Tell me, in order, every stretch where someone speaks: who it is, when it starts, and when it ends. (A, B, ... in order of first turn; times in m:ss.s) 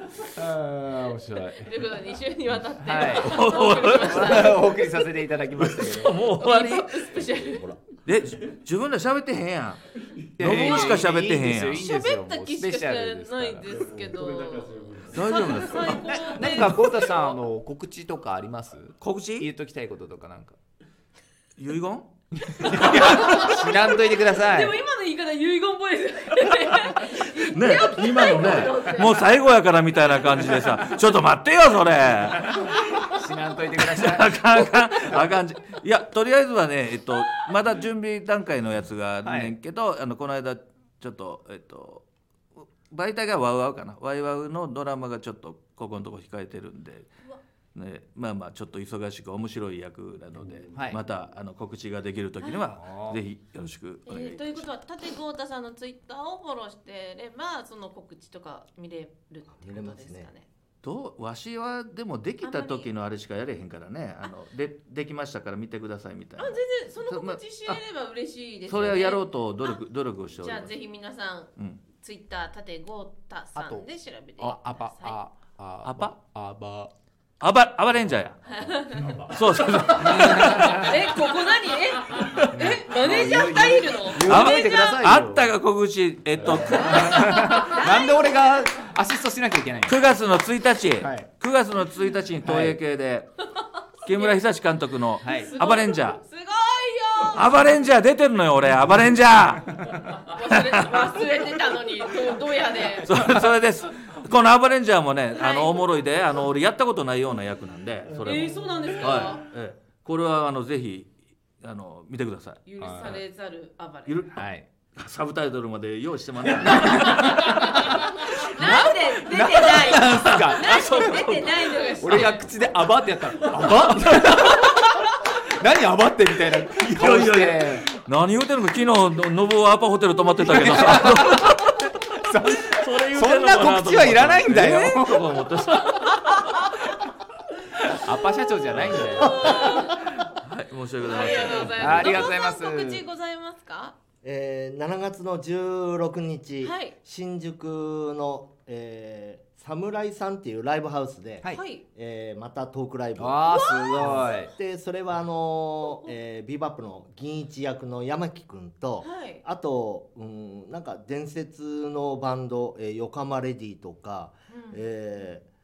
0:00.3-0:01.7 A
0:01.5-0:05.0 B
0:02.8-0:06.3 A
0:03.2-0:04.6 C
0:05.6-0:07.2 C
0:06.4-0:07.7 B
0:07.3-0:07.8 D
0:08.0-0:09.8 C
0:10.4-0:13.8 A
0:10.4-0:11.8 C
0:10.5-0:11.0 B
0:11.7-0:17.4 B
0:15.0-0:16.1 C
0:15.5-0:20.6 A
0:19.0-0:19.5 C
0:21.6-0:22.1 C
0:22.4-0:24.8 A
0:22.8-0:29.3 B
0:27.4-0:33.1 C
0:33.1-0:34.5 A
0:33.8-0:42.0 C
0:39.2-0:39.6 A
0:42.6-0:47.1 C
0:47.7-0:54.7 C
0:52.7-0:53.2 A
0:54.0-1:00.5 B
0:59.6-1:00.3 D
1:00.8-1:07.8 C
1:02.4-1:02.9 B
1:06.4-1:09.8 B
1:08.7-1:10.7 C
1:10.3-1:15.2 B
1:13.6-1:16.9 A
1:15.8-1:16.2 C
1:17.4-1:18.6 C
1:18.4-1:19.2 B
1:18.9-1:19.4 A
1:19.3-1:21.5 C
1:19.9-1:21.0 A
1:20.5-1:24.9 B
1:22.1-1:22.7 C
1:22.5-1:25.5 A
1:24.2-1:27.7 C
1:26.4-1:30.1 A
1:26.7-1:28.4 B
1:29.8-1:33.4 C
1:31.0-1:31.3 A
1:32.4-1:32.8 A
1:34.0-1:36.2 C
1:34.0-1:34.5 B
1:35.2-1:35.5 A
1:35.2-1:37.7 B
1:37.3-1:41.0 C
1:40.1-1:43.1 B
1:43.0-1:53.1 C
1:45.3-1:45.9 B
1:48.2-1:49.4 B
1:52.6-1:54.2 B
1:52.8-1:53.2 A
1:54.0-1:54.4 C
1:54.3-1:54.7 A
1:54.9-1:58.7 C
1:57.0-1:57.9 A
1:57.4-2:02.5 B
1:58.5-2:07.9 A
1:59.9-2:02.3 C
2:04.2-2:04.7 C
2:06.9-2:16.6 C
2:10.4-2:11.6 A
2:12.2-2:15.4 A
2:17.9-2:19.8 A
2:18.7-2:19.2 C
2:19.1-2:20.1 B
2:19.3-2:19.6 D
2:19.8-2:22.2 C
2:21.0-2:24.0 B
2:21.5-2:23.0 A
2:24.2-2:45.4 D
2:26.6-2:27.0 B
2:31.5-2:31.8 B
2:33.2-2:34.5 A
2:33.5-2:34.5 B
2:35.8-2:36.1 B
2:39.0-2:39.4 B
2:44.5-2:44.8 B